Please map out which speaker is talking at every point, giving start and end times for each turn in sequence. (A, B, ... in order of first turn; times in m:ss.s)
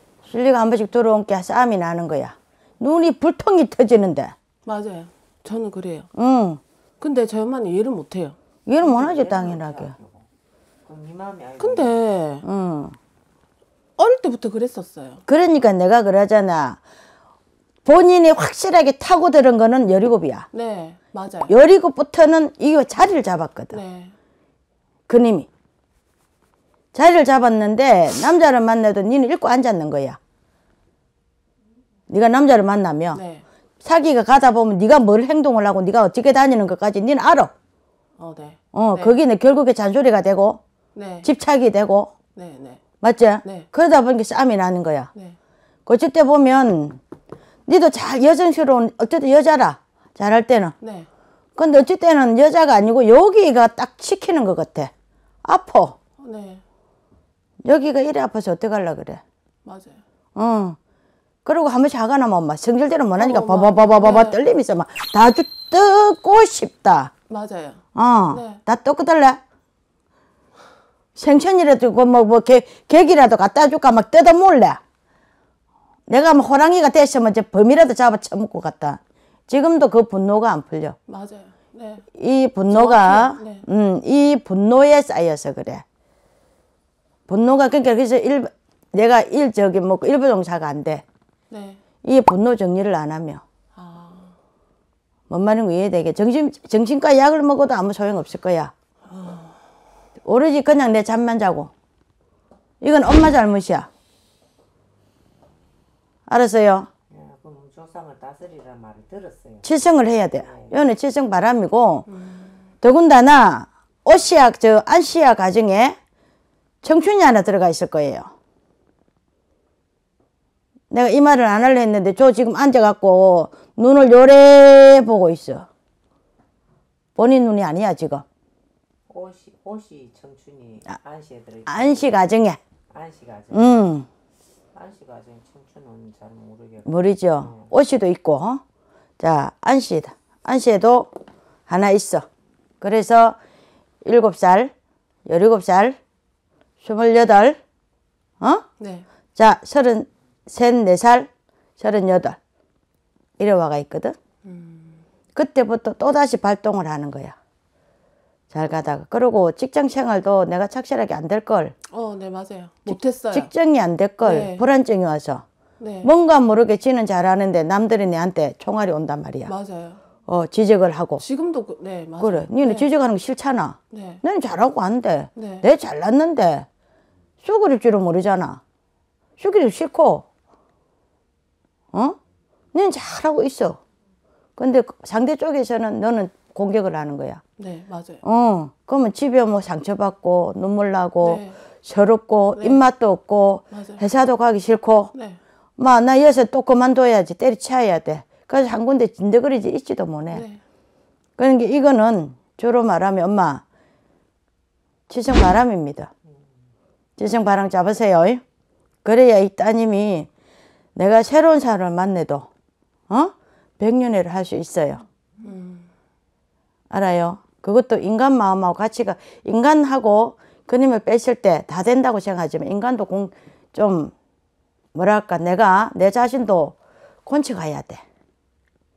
0:00.2-0:04.3 A
0:04.6-0:06.1 B
0:06.1-0:06.6 A
0:07.0-0:08.3 B
0:08.7-0:09.9 A
0:08.8-0:10.2 C
0:10.8-0:12.0 C
0:11.6-0:12.4 B
0:12.4-0:13.0 A
0:14.0-0:15.2 B
0:15.3-0:16.8 A
0:17.8-0:20.5 A
0:20.5-0:21.5 B
0:21.5-0:23.8 A
0:23.7-0:24.1 B
0:25.1-0:25.5 A
0:26.9-0:30.2 A
0:32.1-0:33.2 A
0:33.1-0:33.4 B
0:33.8-0:37.5 A
0:38.2-0:39.2 B
0:38.7-0:40.6 A
0:40.9-0:41.3 B
0:41.2-0:42.1 A
0:42.3-0:42.8 B
0:43.0-0:45.1 A
0:45.8-0:47.0 A
0:47.7-0:50.7 A
0:50.8-0:51.1 B
0:51.6-0:54.9 A
0:55.4-0:56.0 A
0:56.2-0:56.6 B
0:57.6-0:59.2 A
0:59.6-1:00.0 B
1:00.3-1:00.8 A
1:01.4-1:07.1 A
1:03.2-1:04.4 B
1:07.3-1:07.8 B
1:07.9-1:09.4 A
1:08.3-1:08.6 B
1:11.2-1:14.8 A
1:16.1-1:21.0 A
1:21.1-1:22.0 B
1:22.2-1:25.8 A
1:22.7-1:23.6 B
1:27.3-1:31.0 A
1:31.5-1:31.8 B
1:32.0-1:33.4 A
1:33.7-1:34.4 B
1:35.3-1:38.7 A
1:39.1-1:39.6 B
1:40.2-1:41.7 A
1:42.8-1:43.9 A
1:46.3-1:46.9 A
1:47.1-1:49.7 C
1:49.6-1:52.1 A
1:50.4-1:50.8 C
1:52.1-1:52.5 B
1:52.8-1:56.0 A
1:56.8-1:58.3 A
2:00.9-2:05.7 A
2:07.2-2:08.2 A
2:09.1-2:12.1 C
2:11.7-2:12.6 A
2:12.9-2:13.9 C
2:13.5-2:14.1 A
2:14.7-2:17.7 C
2:16.8-2:18.6 A
2:19.2-2:21.1 A
2:21.7-2:22.2 A
2:22.8-2:23.4 A
2:24.0-2:24.7 A
2:25.2-2:26.0 A
2:26.8-2:27.6 A
2:28.4-2:28.6 A
2:28.8-2:29.0 B
2:29.3-2:32.4 A
2:33.4-2:34.2 A
2:34.4-2:35.0 B
2:35.3-2:37.3 A
2:38.5-2:41.8 A
2:41.9-2:43.5 B
2:42.9-2:45.4 A
2:44.2-2:44.6 B
2:45.8-2:46.1 B
2:46.0-2:49.5 A
2:49.5-2:50.0 B
2:50.3-2:51.2 A
2:51.2-2:52.9 B
2:52.2-2:56.7 A
2:53.9-2:54.2 B
2:55.3-2:55.6 B
2:57.4-2:58.6 A
2:59.4-3:00.2 A
3:01.9-3:02.2 A
3:02.7-3:03.8 A
3:04.6-3:07.4 A
3:07.6-3:08.2 B
3:08.2-3:15.1 A
3:11.2-3:11.6 B
3:12.5-3:12.8 B
3:13.7-3:14.0 B
3:15.1-3:15.4 B
3:15.8-3:20.4 A
3:20.3-3:20.6 B
3:21.4-3:23.6 A
3:25.1-3:26.1 A
3:27.2-3:28.4 A
3:29.0-3:30.3 A
3:31.0-3:32.5 A
3:33.1-3:35.0 A
3:35.4-3:35.9 B
3:36.9-3:44.1 A
3:44.9-3:48.0 A